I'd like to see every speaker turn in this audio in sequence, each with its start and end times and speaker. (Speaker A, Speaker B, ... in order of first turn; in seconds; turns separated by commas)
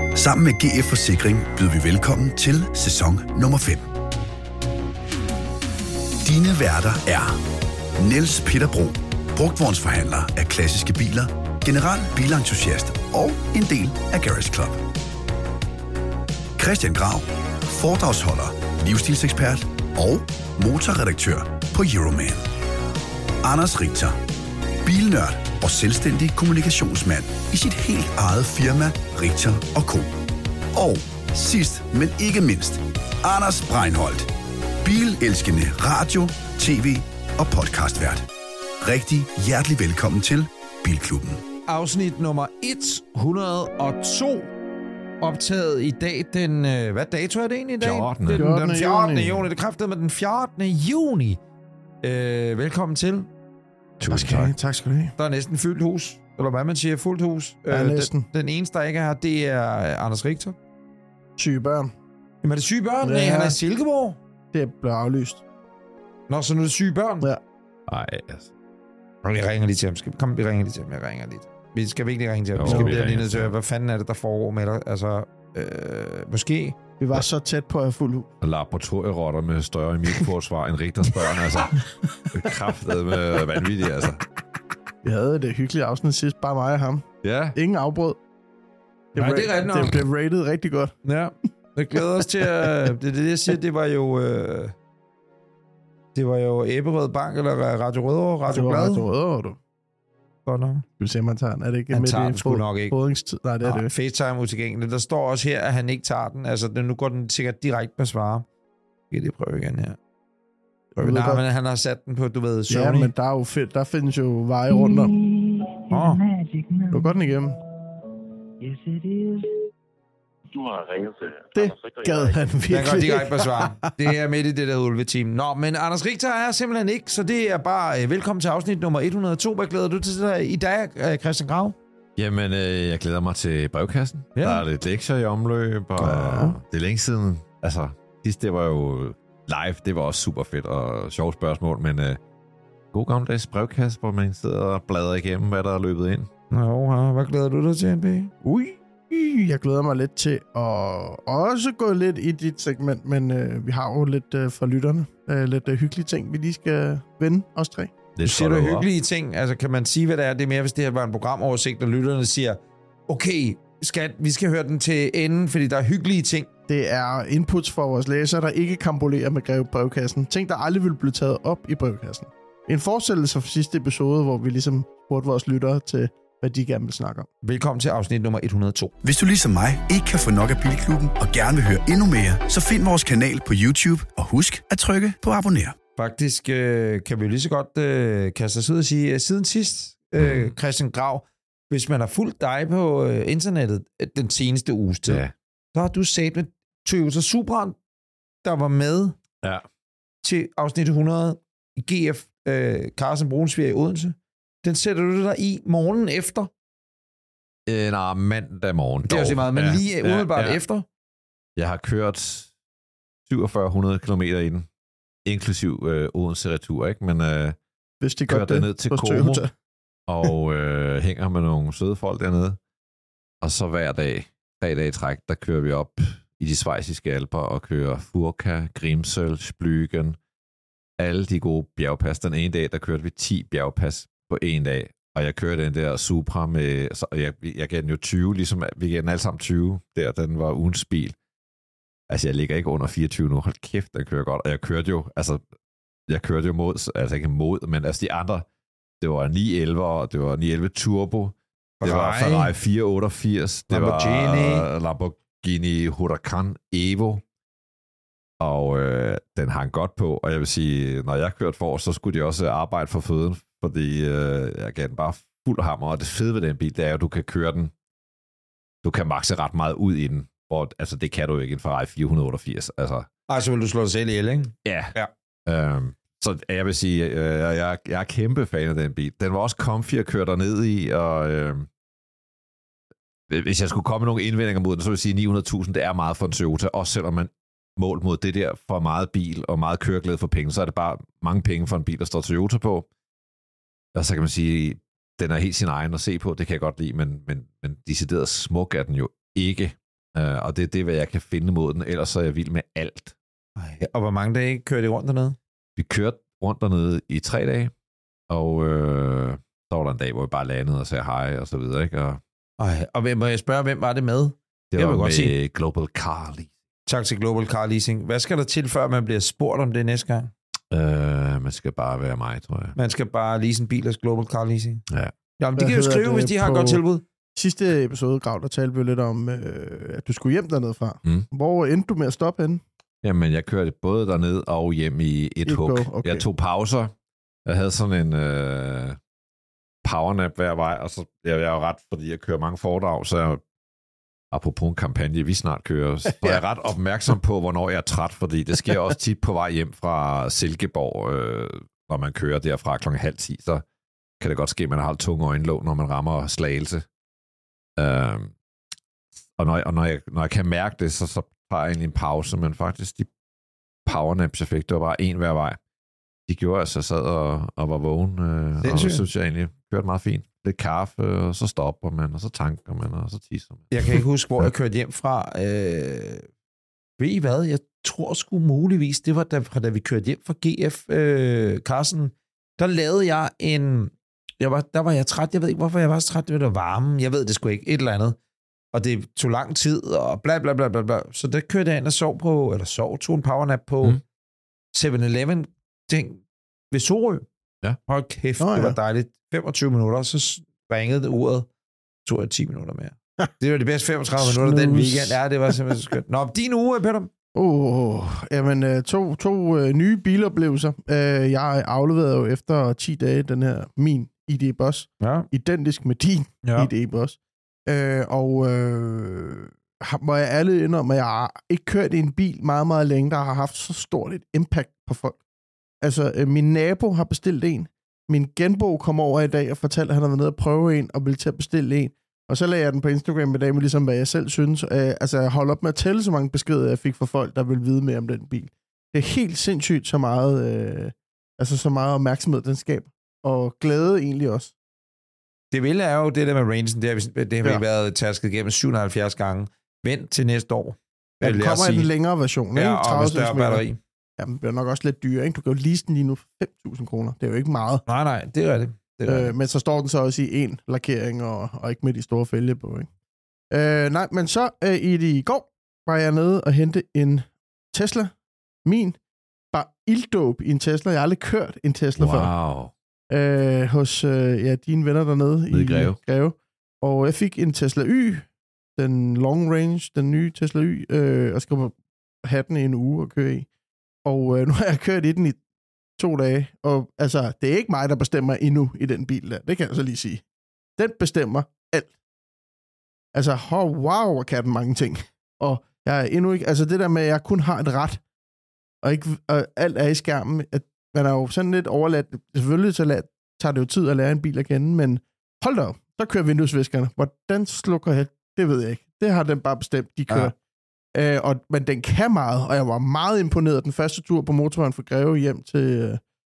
Speaker A: 0.1-3.9, Speaker A: 6.2-7.4, Speaker A: 8.0-14.8, Speaker A: 16.6-22.5, Speaker A: 23.4-24.2, Speaker A: 24.8-30.1, Speaker A: 30.7-34.3, Speaker A: 34.8-38.3, Speaker A: 38.8-41.4, Speaker B: 41.7-44.5, Speaker B: 45.2-51.4, Speaker C: 47.8-48.5, Speaker D: 48.3-49.5, Speaker B: 52.0-53.3, Speaker C: 54.0-54.5, Speaker D: 54.1-55.1, Speaker B: 55.2-60.5, Speaker D: 57.7-58.3, Speaker D: 61.4-61.9, Speaker B: 62.4-64.2, Speaker D: 63.0-63.6, Speaker D: 64.5-65.4, Speaker B: 66.3-67.3, Speaker C: 67.9-68.5, Speaker B: 69.2-76.8, Speaker C: 72.5-73.5, Speaker D: 72.7-72.9, Speaker D: 77.0-78.3, Speaker C: 78.4-84.2, Speaker D: 81.4-82.6, Speaker D: 83.3-83.6, Speaker D: 85.0-88.2, Speaker C: 87.2-87.6, Speaker D: 89.1-91.0, Speaker B: 89.2-90.0, Speaker B: 91.0-94.8, Speaker D: 92.2-92.7, Speaker B: 96.2-99.1, Speaker D: 98.5-99.6, Speaker B: 100.5-100.8, Speaker D: 101.0-103.9, Speaker B: 101.9-103.0, Speaker B: 103.6-108.5, Speaker B: 109.1-110.0, Speaker D: 111.0-111.4, Speaker B: 111.0-113.1, Speaker D: 112.7-115.1, Speaker E: 114.7-119.5, Speaker B: 115.9-116.2, Speaker D: 116.9-117.6, Speaker E: 120.5-122.9, Speaker D: 121.5-123.9, Speaker B: 122.7-131.8, Speaker C: 132.2-142.2, Speaker B: 134.3-134.6, Speaker D: 136.0-136.6, Speaker C: 142.9-146.3, Speaker B: 146.5-148.3, Speaker D: 148.4-157.9, Speaker C: 158.2-158.9, Speaker B: 158.2-166.5, Speaker D: 166.7-177.3, Speaker B: 177.4-178.9, Speaker A: 179.0-185.8, Speaker B: 186.0-195.2, Speaker C: 190.2-190.5, Speaker C: 195.1-195.3, Speaker B: 195.7-197.8, Speaker B: 198.4-199.2, Speaker B: 200.2-206.5, Speaker C: 207.7-210.6, Speaker B: 209.1-210.8, Speaker C: 211.6-212.5, Speaker C: 213.3-214.7, Speaker C: 215.2-217.6, Speaker D: 218.0-219.5, Speaker C: 218.3-219.4, Speaker C: 220.1-222.6, Speaker C: 223.4-230.2, Speaker C: 231.0-241.2, Speaker C: 242.1-245.4, Speaker C: 246.1-248.5, Speaker C: 249.0-257.2, Speaker B: 251.8-252.5, Speaker B: 253.7-254.7, Speaker C: 258.4-267.7, Speaker C: 268.8-273.1, Speaker B: 273.3-275.1, Speaker C: 274.6-274.9, Speaker C: 275.5-281.7, Speaker C: 283.3-292.9, Speaker C: 293.9-303.1, Speaker B: 303.6-305.4, Speaker C: 305.8-307.7, Speaker C: 308.3-312.2, Speaker B: 312.6-315.3, Speaker C: 314.7-316.5, Speaker B: 316.9-320.3, Speaker C: 320.7-322.8, Speaker B: 322.8-324.8, Speaker B: 325.4-327.0, Speaker D: 325.6-326.8, Speaker D: 327.4-332.6, Speaker C: 333.0-336.9, Speaker D: 335.5-336.3, Speaker C: 337.5-339.0, Speaker C: 339.8-343.4, Speaker C: 344.3-353.6, Speaker C: 354.2-356.9, Speaker C: 357.8-358.3, Speaker C: 359.4-363.1, Speaker C: 363.9-365.6, Speaker C: 366.3-374.0, Speaker B: 368.6-369.1, Speaker B: 373.7-376.3, Speaker B: 377.0-388.2, Speaker B: 388.7-394.0, Speaker B: 394.7-397.3, Speaker B: 397.9-401.5, Speaker D: 398.4-398.8, Speaker B: 402.1-407.1, Speaker D: 404.2-405.6, Speaker D: 407.4-425.2, Speaker B: 415.0-415.3, Speaker B: 416.4-416.7, Speaker D: 425.8-444.5, Speaker B: 445.5-451.9, Speaker D: 451.2-453.6, Speaker B: 452.6-453.8, Speaker D: 454.2-457.8, Speaker B: 457.9-459.3, Speaker D: 459.1-462.9, Speaker D: 463.5-468.1, Speaker D: 468.6-469.0, Speaker D: 469.5-472.3, Speaker C: 472.0-472.7, Speaker D: 473.1-478.3, Speaker C: 475.5-476.0, Speaker D: 478.8-483.5, Speaker D: 484.1-485.4, Speaker D: 486.0-490.2, Speaker D: 490.8-491.9, Speaker D: 493.1-498.0, Speaker D: 498.8-510.4, Speaker D: 510.9-516.0